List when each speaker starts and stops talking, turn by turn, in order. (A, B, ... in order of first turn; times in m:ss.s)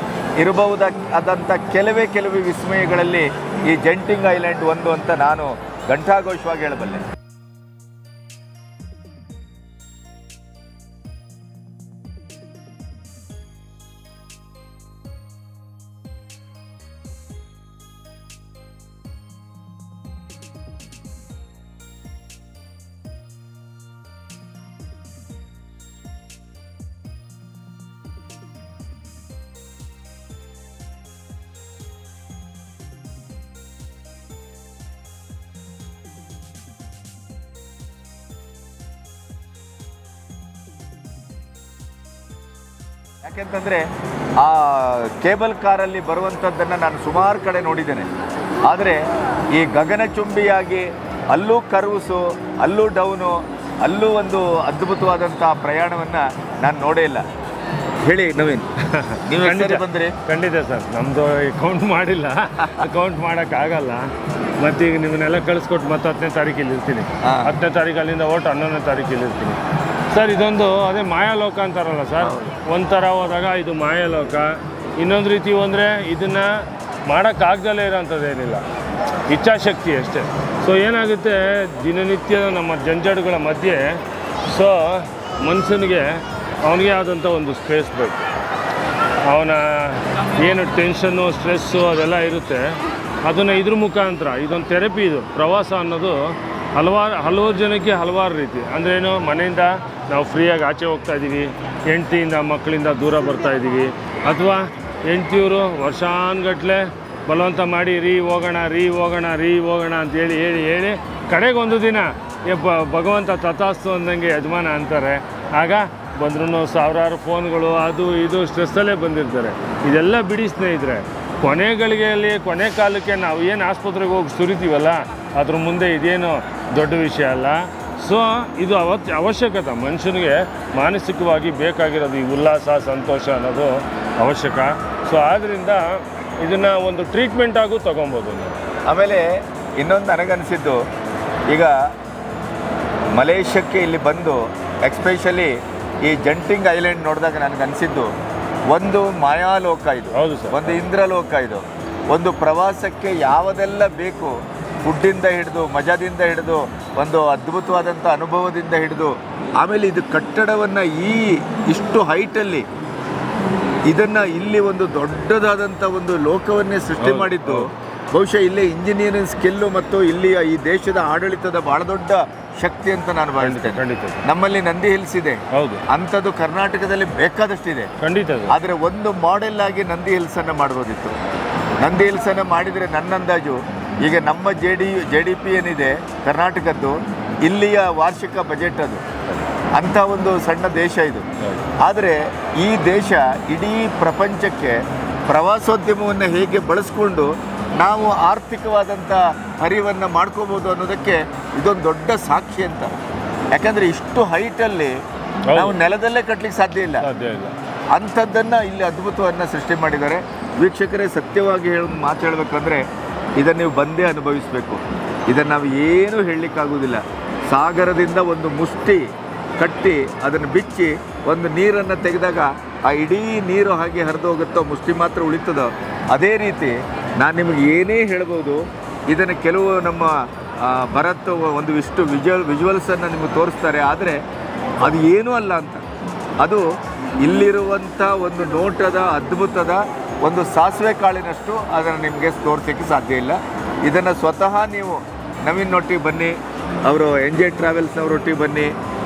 0:00.4-0:07.0 A
0:43.2-0:43.8 A
0:44.4-0:48.1 A
0:48.7-0:49.0 A
0:49.6-0:57.2 A
0:58.1-0:58.7 A
0:59.0-1:09.6 B
0:59.2-1:00.1 A
1:07.2-1:07.5 A
1:10.1-1:18.6 B
1:12.2-1:12.5 A
1:19.3-1:28.2 B
1:29.3-2:18.6 B
2:18.9-2:19.2 A
2:19.8-2:20.8 A
2:23.2-2:25.5 A
2:26.0-2:28.1 A
2:28.7-2:42.6 A
2:30.2-2:30.8 B
2:43.9-2:47.6 A
2:47.0-2:47.6 B
2:48.1-2:57.9 A
2:53.4-2:54.2 B
2:55.5-2:55.8 B
2:58.0-2:58.5 B
2:58.5-3:01.2 A
3:01.8-3:09.0 A
3:09.7-3:11.3 A
3:11.8-3:23.0 A
3:23.5-3:24.9 A
3:25.5-3:25.8 B
3:25.5-3:27.1 A
3:27.0-3:27.5 B
3:27.9-3:32.8 A
3:33.4-3:39.0 A
3:39.6-3:50.1 A
3:50.6-3:54.2 A
3:54.8-3:55.8 A
3:57.2-4:06.4 A
4:06.9-4:08.7 A